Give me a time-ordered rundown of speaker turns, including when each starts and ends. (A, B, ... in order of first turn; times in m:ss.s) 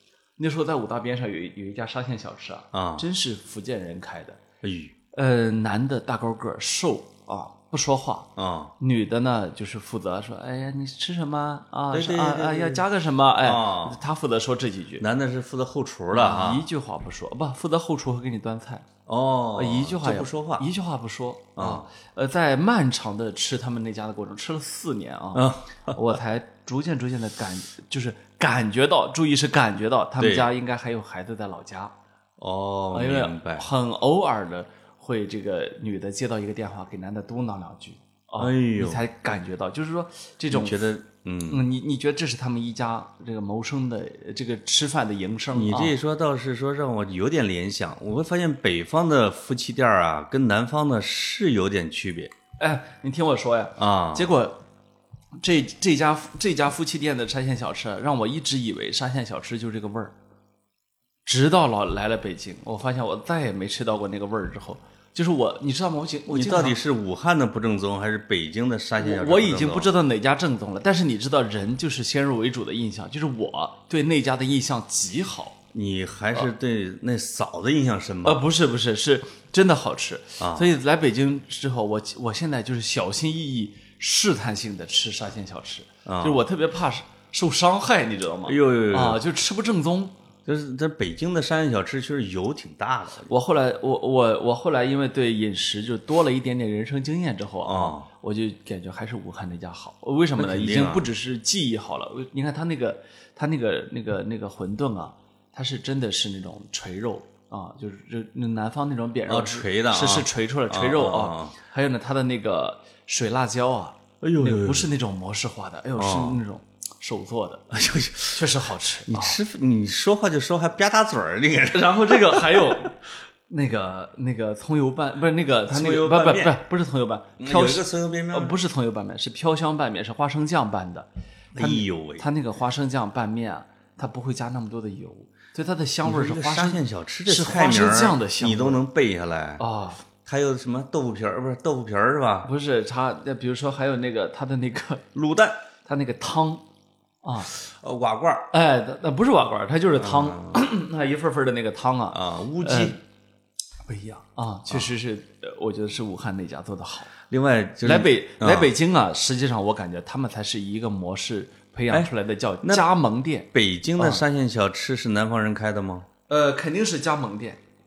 0:00.4-0:04.4 A
0:02.7-0:03.1 B
0:04.6-0:04.9 B
0:05.1-0:15.1 A
0:08.4-0:08.7 B
0:11.9-0:12.8 B
0:13.4-0:14.0 B
0:15.0-0:16.7 B
0:16.1-0:18.9 A
0:19.1-0:20.7 B
0:19.6-0:31.9 A
0:21.6-0:21.9 B
0:25.4-0:26.2 B
0:30.2-0:30.5 B
0:32.4-0:33.7 B
0:32.9-0:40.8 A
0:38.4-0:39.0 B
0:40.5-0:41.6 B
0:41.5-0:46.0 A
0:45.5-0:52.3 B
0:52.6-0:54.6 A
0:53.8-0:54.3 B
0:55.4-1:00.1 A
1:01.3-1:06.8 A
1:06.3-1:09.9 B
1:09.0-1:15.6 A
1:15.7-1:18.4 B
1:18.2-1:30.2 A
1:20.4-1:20.7 B
1:26.1-1:26.4 B
1:28.5-1:29.2 B
1:30.5-1:33.3 B
1:33.3-1:57.7 A
1:37.6-1:38.1 B
1:40.4-1:41.1 B
1:49.3-1:51.6 B
1:54.2-1:54.9 B
1:56.0-1:56.4 B
1:57.7-1:58.5 B
1:58.3-1:59.4 A
1:59.1-2:02.8 B
2:01.7-2:03.0 A
2:03.5-2:18.8 A
2:05.7-2:06.6 B
2:07.4-2:08.6 B
2:11.5-2:12.3 B
2:16.0-2:19.6 B
2:19.6-2:20.0 A
2:20.2-2:22.5 B
2:22.4-2:25.1 A
2:25.2-2:25.6 B
2:25.8-2:26.6 A
2:27.2-2:27.5 A
2:27.6-2:28.5 B
2:28.5-2:33.0 A
2:30.0-2:30.6 B
2:32.1-2:33.0 B
2:33.9-2:37.1 A
2:37.3-2:38.7 B
2:37.8-2:44.2 A
2:43.5-2:46.1 B
2:46.3-2:47.6 A